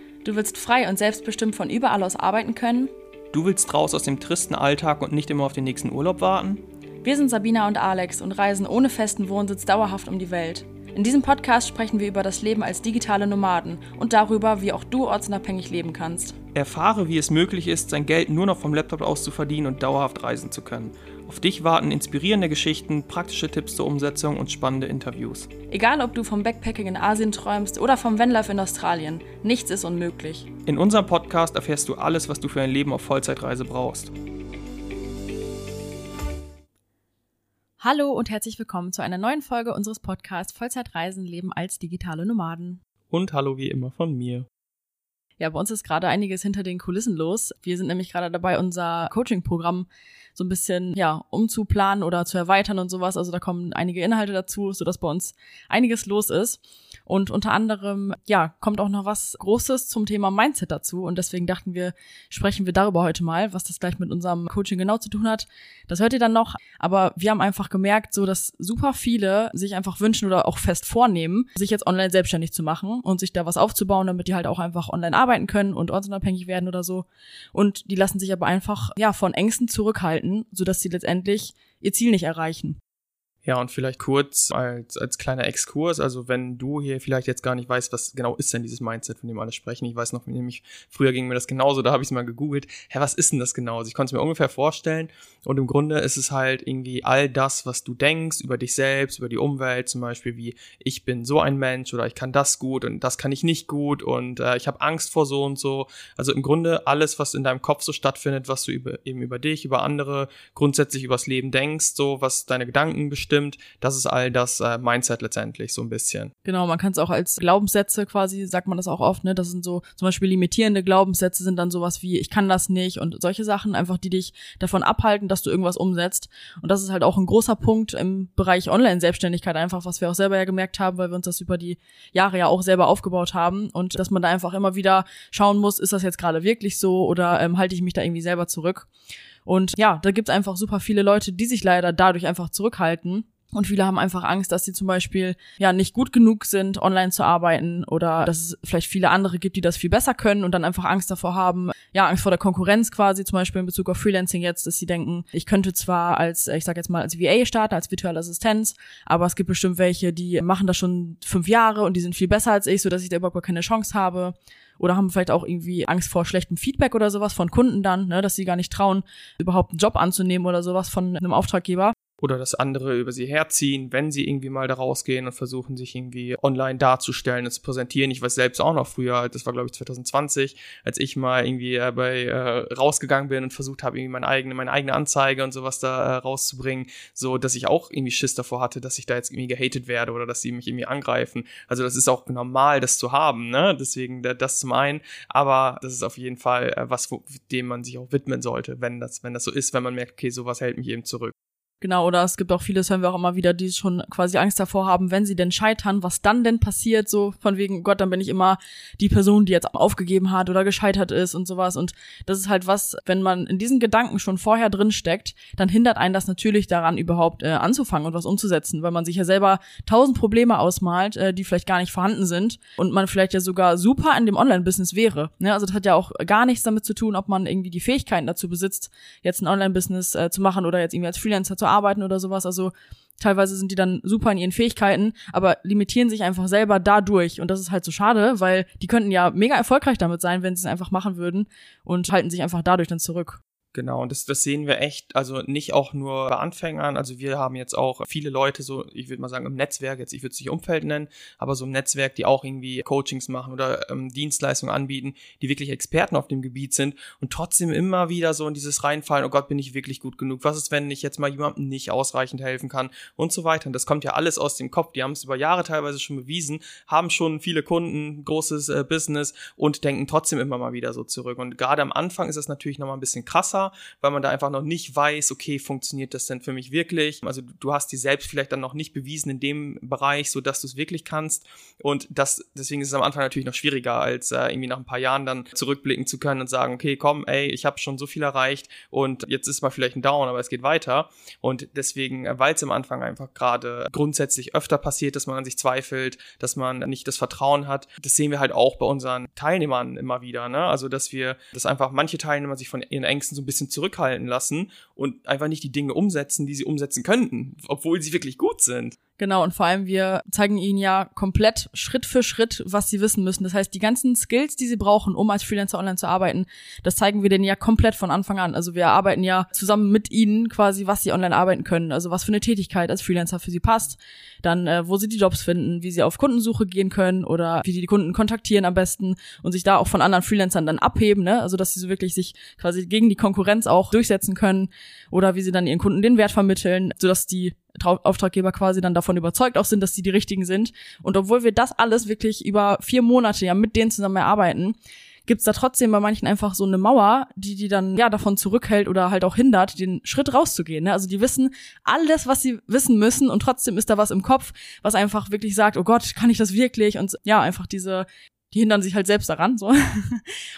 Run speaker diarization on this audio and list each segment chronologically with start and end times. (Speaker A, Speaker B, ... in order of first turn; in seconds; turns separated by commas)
Speaker A: 0.2-2.9, Speaker B: 3.3-6.6, Speaker A: 7.0-16.4, Speaker B: 16.5-25.5, Speaker A: 25.7-30.5, Speaker B: 30.6-34.1, Speaker A: 37.8-42.8, Speaker B: 43.1-44.5, Speaker A: 45.4-82.8, Speaker B: 83.4-116.3, Speaker A: 116.5-138.9, Speaker A: 139.4-171.9, Speaker B: 172.2-201.3, Speaker A: 201.8-243.4, Speaker B: 243.7-308.9, Speaker A: 309.2-360.3